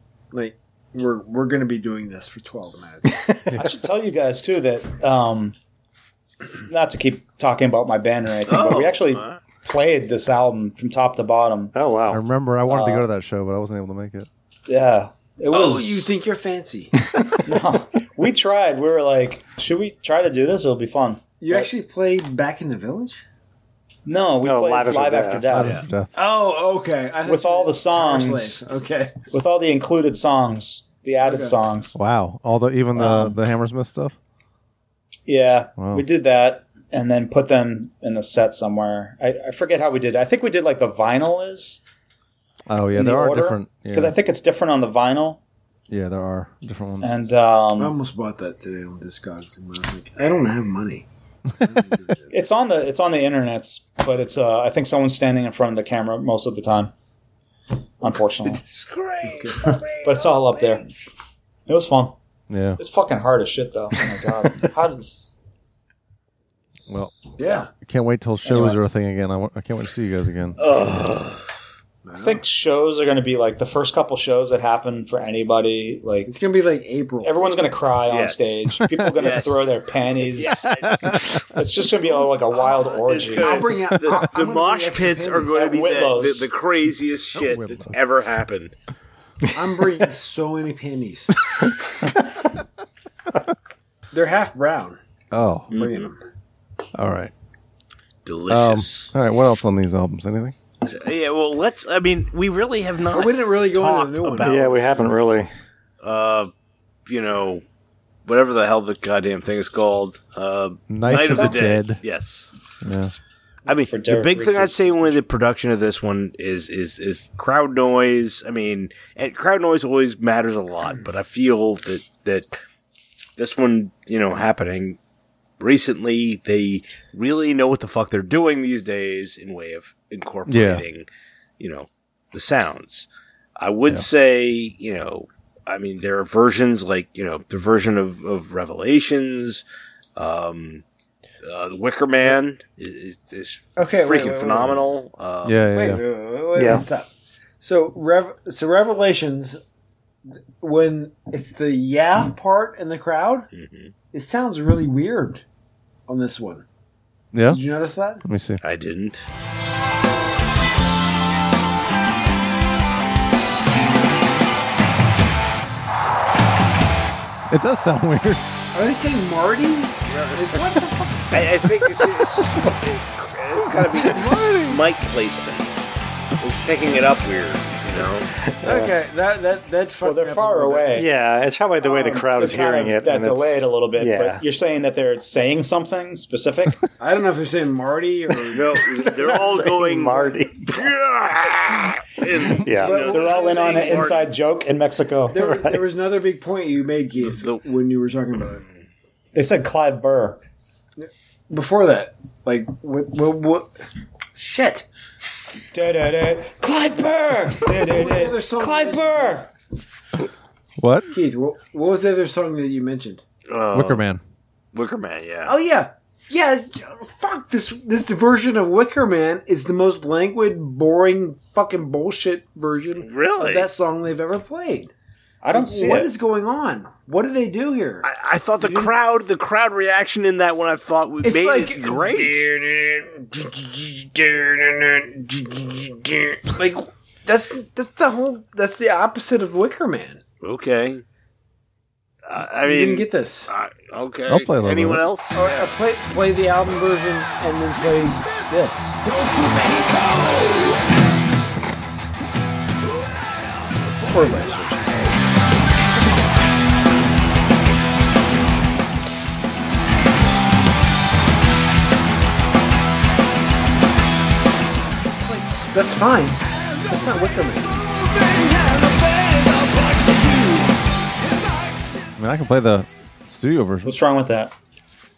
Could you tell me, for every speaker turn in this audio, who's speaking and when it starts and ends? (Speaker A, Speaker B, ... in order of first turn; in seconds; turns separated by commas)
Speaker A: 0.3-3.2, Speaker B: 3.1-3.7, Speaker C: 3.5-5.5, Speaker C: 6.7-11.7, Speaker D: 8.5-9.4, Speaker B: 11.7-13.0, Speaker E: 12.1-14.3, Speaker C: 14.7-16.1, Speaker A: 15.5-16.9, Speaker C: 17.4-21.7, Speaker A: 21.4-23.2, Speaker C: 24.1-25.8, Speaker B: 24.4-25.5, Speaker E: 25.5-26.1, Speaker A: 26.1-29.1, Speaker C: 27.2-28.6, Speaker C: 29.3-31.9, Speaker A: 31.2-31.5, Speaker E: 31.9-34.1, Speaker C: 35.3-41.8, Speaker E: 35.8-36.0, Speaker E: 42.7-44.1, Speaker C: 42.9-45.4, Speaker E: 45.9-47.1, Speaker C: 47.0-47.9, Speaker A: 47.8-51.1, Speaker A: 51.6-52.4, Speaker C: 52.3-56.9, Speaker C: 58.0-58.6, Speaker D: 58.6-60.8, Speaker A: 59.2-59.7, Speaker C: 59.6-60.9, Speaker C: 61.7-62.1, Speaker E: 62.5-62.8, Speaker C: 62.8-65.2, Speaker E: 66.9-70.7, Speaker A: 67.4-67.7, Speaker C: 68.4-68.8, Speaker D: 70.6-71.4, Speaker A: 72.0-72.4, Speaker C: 72.2-76.3, Speaker A: 76.2-77.3, Speaker C: 77.2-80.7, Speaker D: 78.1-78.5, Speaker D: 79.1-81.2, Speaker E: 80.7-81.3, Speaker C: 81.5-83.7, Speaker D: 82.5-88.7, Speaker A: 83.3-85.6, Speaker C: 85.5-86.5, Speaker E: 87.3-87.9, Speaker A: 89.5-91.4, Speaker A: 94.1-95.0, Speaker E: 95.3-95.7, Speaker A: 95.7-96.2, Speaker E: 96.9-97.3, Speaker D: 98.2-99.1, Speaker E: 98.5-100.5, Speaker D: 100.8-104.7, Speaker A: 103.1-104.8, Speaker B: 104.4-105.5, Speaker D: 106.0-106.5, Speaker D: 107.0-107.6, Speaker D: 108.2-112.5, Speaker E: 110.9-112.0, Speaker C: 111.2-111.7, Speaker E: 112.8-113.1, Speaker D: 113.7-122.5, Speaker C: 113.9-115.2, Speaker D: 123.4-125.0, Speaker D: 125.6-131.1, Speaker E: 130.5-130.8, Speaker D: 131.6-139.6, Speaker D: 140.2-140.8, Speaker D: 141.4-145.6, Speaker A: 143.8-144.9, Speaker E: 145.4-146.0, Speaker A: 145.7-147.1, Speaker B: 146.5-146.8, Speaker A: 147.6-149.6, Speaker A: 150.6-153.5, Speaker D: 153.5-153.9, Speaker A: 154.1-155.4, Speaker A: 156.1-156.6, Speaker E: 157.3-157.6, Speaker A: 157.4-158.2, Speaker E: 158.2-158.6, Speaker D: 158.6-159.2, Speaker E: 167.5-168.4, Speaker A: 168.7-171.6, Speaker D: 170.1-170.6, Speaker D: 171.3-175.7, Speaker E: 174.0-174.8, Speaker D: 176.4-178.3, Speaker B: 178.5-178.9, Speaker A: 178.6-180.9, Speaker C: 180.0-181.1, Speaker B: 180.9-184.4, Speaker A: 181.8-182.3, Speaker C: 182.2-186.8, Speaker A: 187.0-189.7, Speaker D: 188.5-194.2, Speaker B: 189.1-190.9, Speaker B: 192.6-193.1, Speaker A: 192.8-194.2, Speaker C: 193.0-195.4, Speaker A: 195.3-198.6, Speaker B: 195.4-195.8, Speaker D: 197.2-197.6, Speaker C: 199.3-200.4, Speaker A: 201.0-203.8, Speaker A: 204.3-204.8, Speaker C: 205.7-209.5, Speaker A: 207.7-209.4, Speaker E: 210.8-211.1, Speaker A: 211.1-213.2, Speaker D: 213.5-214.1, Speaker E: 213.7-214.2, Speaker D: 214.7-215.5, Speaker A: 215.4-224.9, Speaker D: 223.0-223.7, Speaker C: 225.4-226.1, Speaker A: 225.5-228.1, Speaker D: 228.0-232.5, Speaker A: 228.6-228.9, Speaker A: 231.2-240.2, Speaker D: 240.4-241.0, Speaker D: 242.2-245.7, Speaker A: 242.6-243.5, Speaker E: 244.3-245.1, Speaker A: 245.3-249.0, Speaker A: 254.1-255.1, Speaker A: 265.2-268.4, Speaker A: 270.0-270.6, Speaker E: 272.2-273.9, Speaker C: 273.8-274.5